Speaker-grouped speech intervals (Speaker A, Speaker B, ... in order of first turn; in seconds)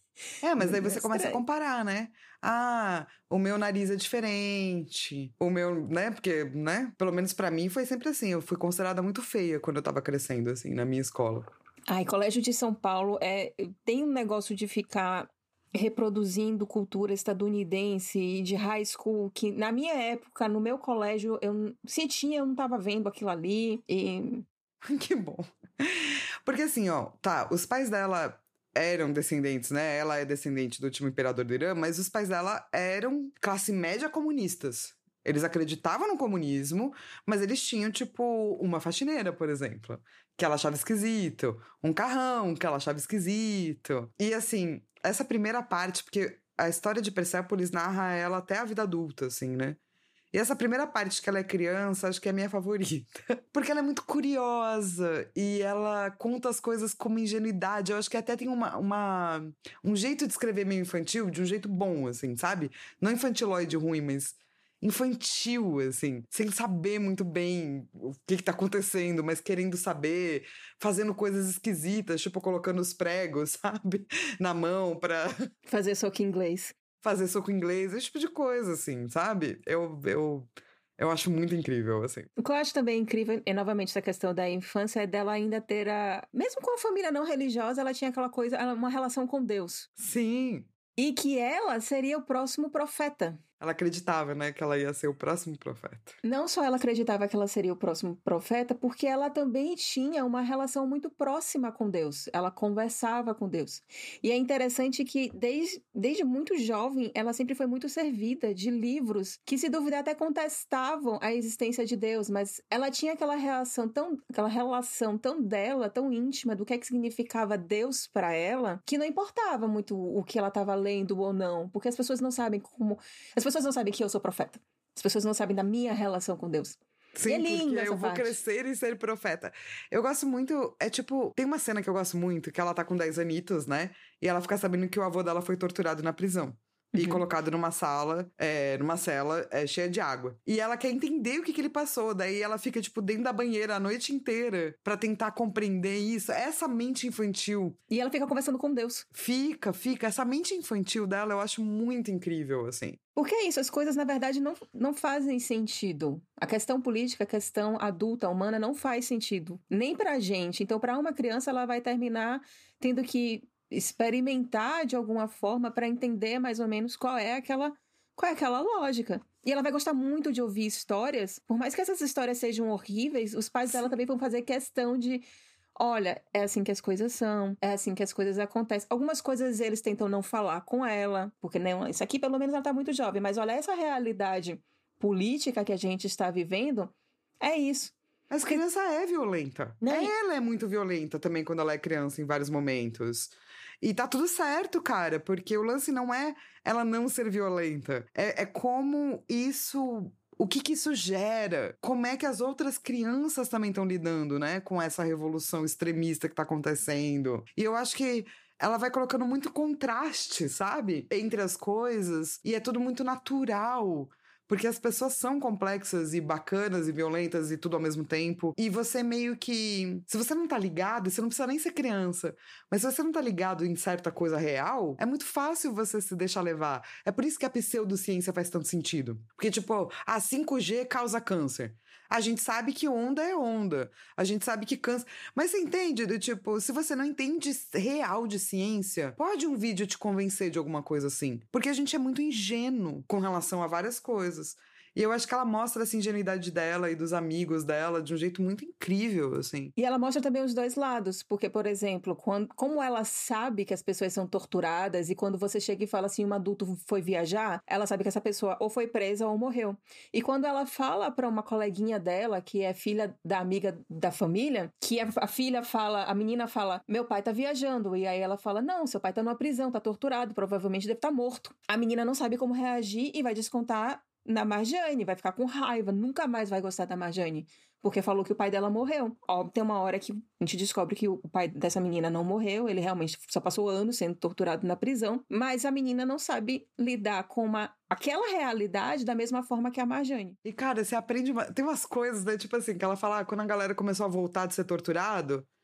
Speaker A: 0.4-11.5, 24.8-49.8, 50.3-75.3, 77.0-82.3, 90.0-90.7, 93.6-96.2, 127.2-147.8, 149.1-153.0, 188.3-249.7, 290.4-295.5
Speaker B: 0.6-1.4, 11.9-24.5, 75.7-76.8, 82.4-89.9, 91.0-93.4, 96.2-128.4, 136.9-137.2, 147.9-149.1, 153.2-175.2, 175.8-188.0, 189.8-190.1, 249.8-290.4